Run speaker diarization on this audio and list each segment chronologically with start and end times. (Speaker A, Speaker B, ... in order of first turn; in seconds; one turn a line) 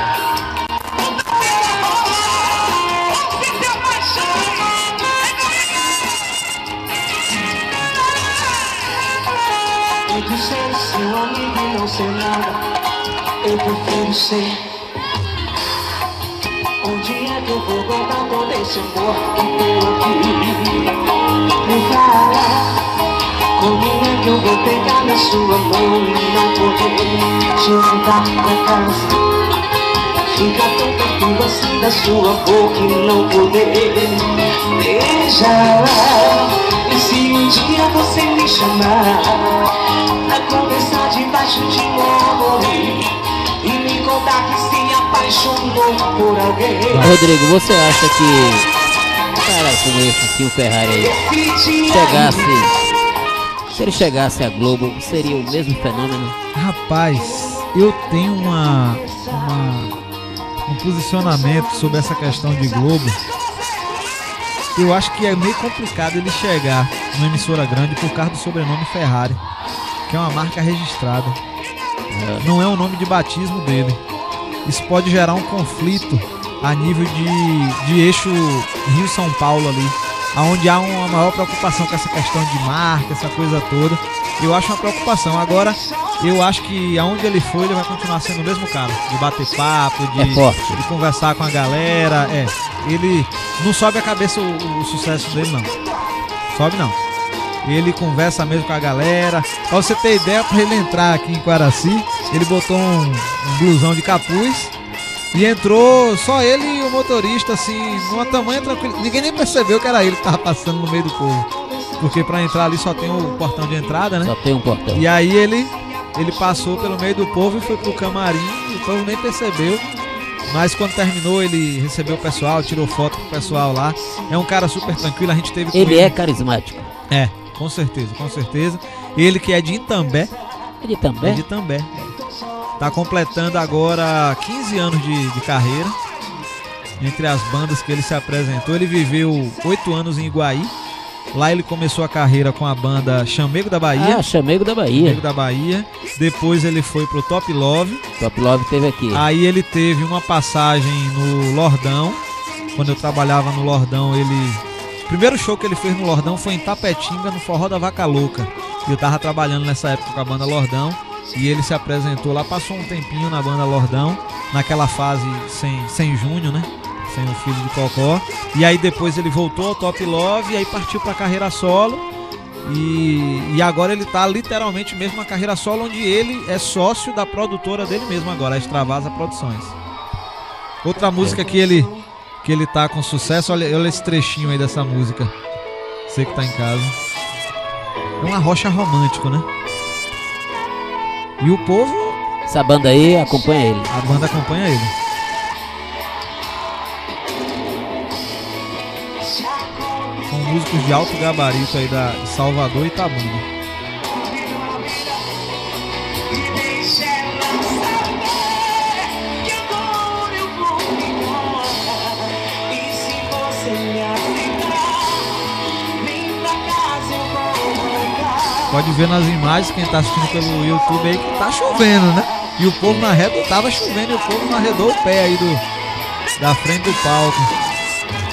Speaker A: 3.8-4.7
Speaker A: 10.1-12.7
Speaker A: 13.4-14.6
Speaker A: 16.8-21.0
Speaker A: 21.6-22.8
Speaker A: 23.6-29.2
Speaker A: 30.3-47.1
Speaker B: 46.9-47.2
Speaker C: 46.9-48.7
Speaker C: 49.4-51.2
Speaker A: 51.0-52.9
Speaker C: 51.9-52.7
Speaker C: 53.7-56.4
Speaker B: 56.5-59.9
Speaker A: 57.4-57.6
Speaker A: 59.0-59.5
Speaker B: 60.7-63.2
Speaker B: 64.7-69.4
Speaker B: 70.1-71.4
Speaker C: 72.1-72.5
Speaker B: 72.4-74.0
Speaker B: 74.6-95.7
Speaker C: 90.2-90.8
Speaker B: 96.5-97.0
Speaker B: 97.6-104.7
Speaker B: 105.3-111.5
Speaker B: 112.0-114.3
Speaker C: 114.2-115.0
Speaker B: 114.9-119.8
Speaker B: 120.5-126.2
Speaker C: 125.7-126.9
Speaker B: 127.1-130.3
Speaker C: 130.8-131.4
Speaker B: 131.2-132.1
Speaker B: 132.8-135.9
Speaker B: 137.0-140.7
Speaker B: 141.3-144.2
Speaker C: 143.9-145.2
Speaker B: 144.9-148.0
Speaker C: 148.2-149.2
Speaker B: 149.1-152.2
Speaker B: 152.7-172.0
Speaker B: 172.6-179.8
Speaker B: 180.8-181.9
Speaker A: 181.2-182.0
Speaker B: 182.4-185.3
Speaker B: 186.1-186.9
Speaker B: 188.2-189.5
Speaker B: 191.4-192.2
Speaker C: 192.5-193.9
Speaker B: 193.9-194.9
Speaker A: 199.1-201.0
Speaker B: 200.3-203.4
Speaker A: 204.0-205.6
Speaker A: 206.1-218.8
Speaker B: 218.7-225.6
Speaker B: 226.4-227.5